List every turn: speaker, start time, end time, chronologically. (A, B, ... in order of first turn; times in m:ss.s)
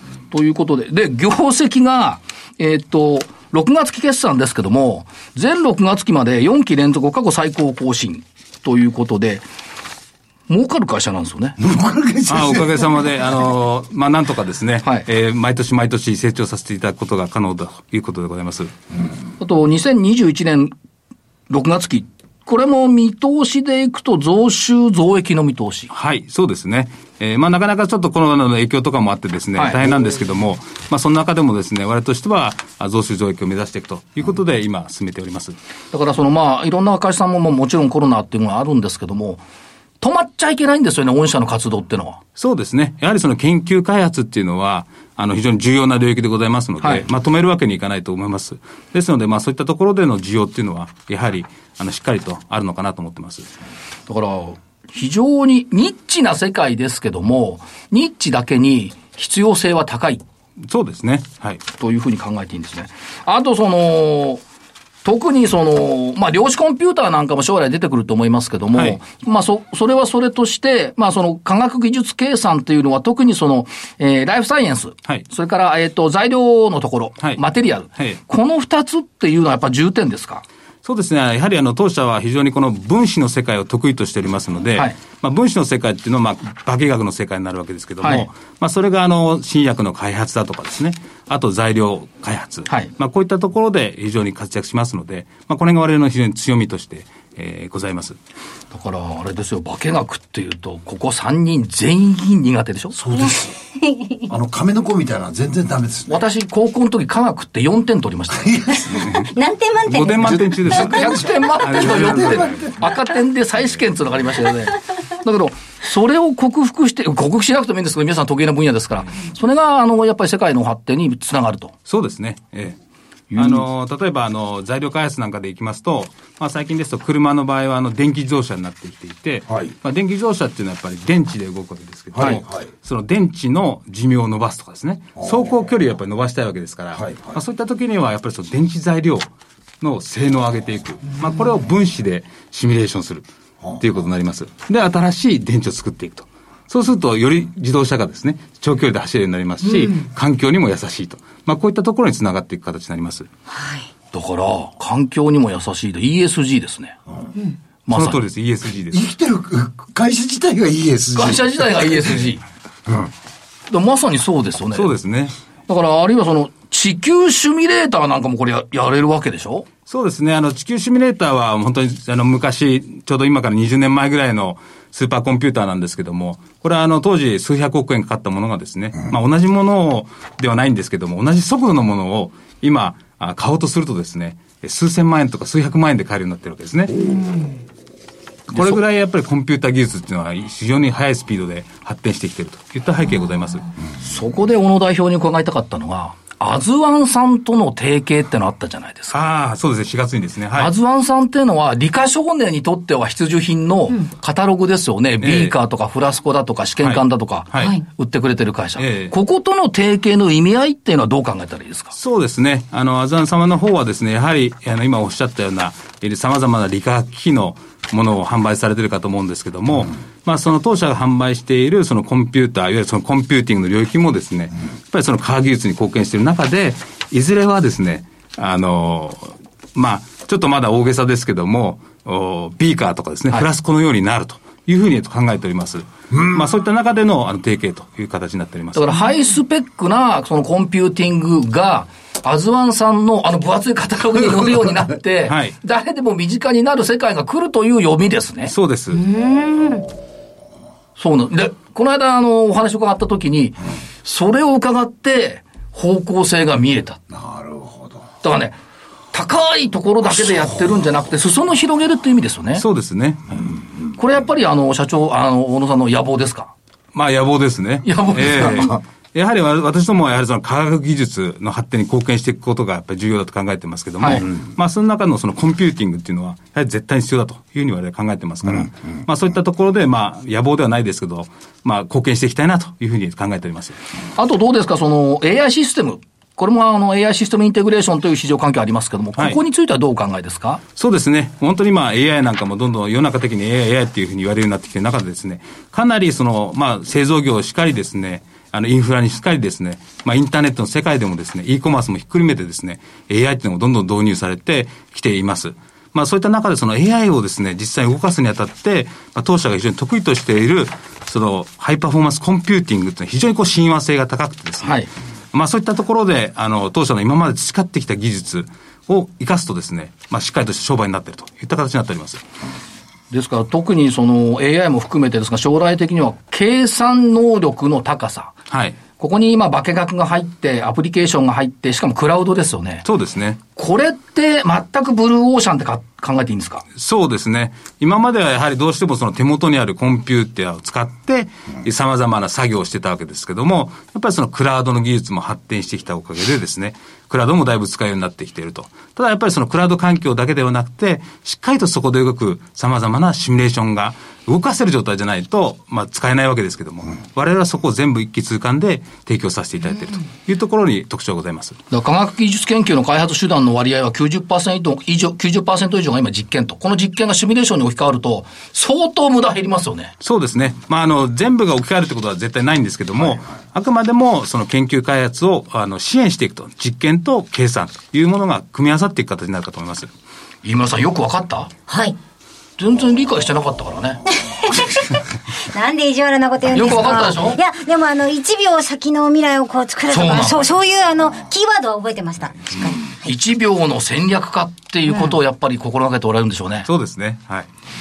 0:00.3-0:09.4 A
0:10.5-0:11.6 A
0:11.6-0:12.9 B
0:12.3-0:18.7 C
0:19.4-0:20.7 A
0:21.5-0:25.9 A
0:25.9-0:35.6 C
0:29.6-0:29.9 A
0:35.9-0:39.4 A
0:40.0-0:42.2 A
0:42.4-0:53.5 C
0:54.1-1:00.2 A
1:00.7-1:01.6 C
1:01.8-1:04.4 A
1:05.0-1:20.4 A
1:08.7-1:09.0 C
1:20.8-1:38.2 C
1:38.7-1:42.9 A
1:42.9-1:43.5 B
1:43.8-1:44.3 D
1:44.3-1:46.2 B
1:46.1-1:49.0 A
1:48.4-1:49.0 B
1:49.0-1:49.3 C
1:49.2-1:50.4 D
1:49.9-1:52.7 C
1:50.2-1:52.7 B
1:50.7-2:01.7 A
2:01.9-2:02.8 C
2:03.3-2:03.6 A
2:03.4-2:19.3 C
2:12.1-2:12.6 B
2:17.0-2:17.3 B
2:19.8-2:23.3 C
2:23.8-2:33.3 C
2:33.5-2:33.9 D
2:34.1-2:37.0 A
2:37.9-2:38.2 A
2:37.9-2:39.1 C
2:38.9-2:41.9 B
2:41.2-2:42.4 A
2:43.7-2:44.9 A
2:44.7-2:45.3 C
2:45.7-2:49.7 A
2:49.9-3:07.0 C
3:08.5-3:13.7 C
3:08.5-3:08.8 A
3:14.0-3:19.2 A
3:19.1-3:20.7 C
3:20.6-3:31.9 A
3:25.2-3:25.5 C
3:26.8-3:27.8 C
3:28.8-3:29.1 C
3:31.9-3:59.0 C
3:58.8-4:08.5 A
4:05.2-4:05.5 C
4:08.4-4:09.0 C
4:09.0-4:09.8 D
4:11.0-4:17.0 A
4:17.1-4:18.0 B
4:18.2-4:18.6 A
4:19.1-4:22.6 A
4:22.5-4:23.4 C
4:24.0-4:26.5 A
4:26.9-4:43.8 C
4:27.8-4:28.8 A
4:34.0-4:34.3 A
4:44.2-4:50.6 A
4:50.8-5:14.8 C
5:14.6-5:14.9 A
5:15.3-5:22.2 C
5:23.1-5:28.4 A
5:28.5-5:28.8 C
5:28.9-5:32.8 A
5:32.8-5:33.4 C
5:33.6-5:36.6 A
5:36.8-6:01.6 C
6:01.7-6:09.9 A
6:10.0-6:19.9 C
6:20.4-6:21.5 A
6:21.7-6:22.0 D
6:22.6-6:24.0 A
6:24.3-6:33.1 D
6:26.5-6:27.4 A
6:29.9-6:30.5 A
6:33.0-6:36.7 A
6:34.9-6:35.1 D
6:36.6-6:37.5 C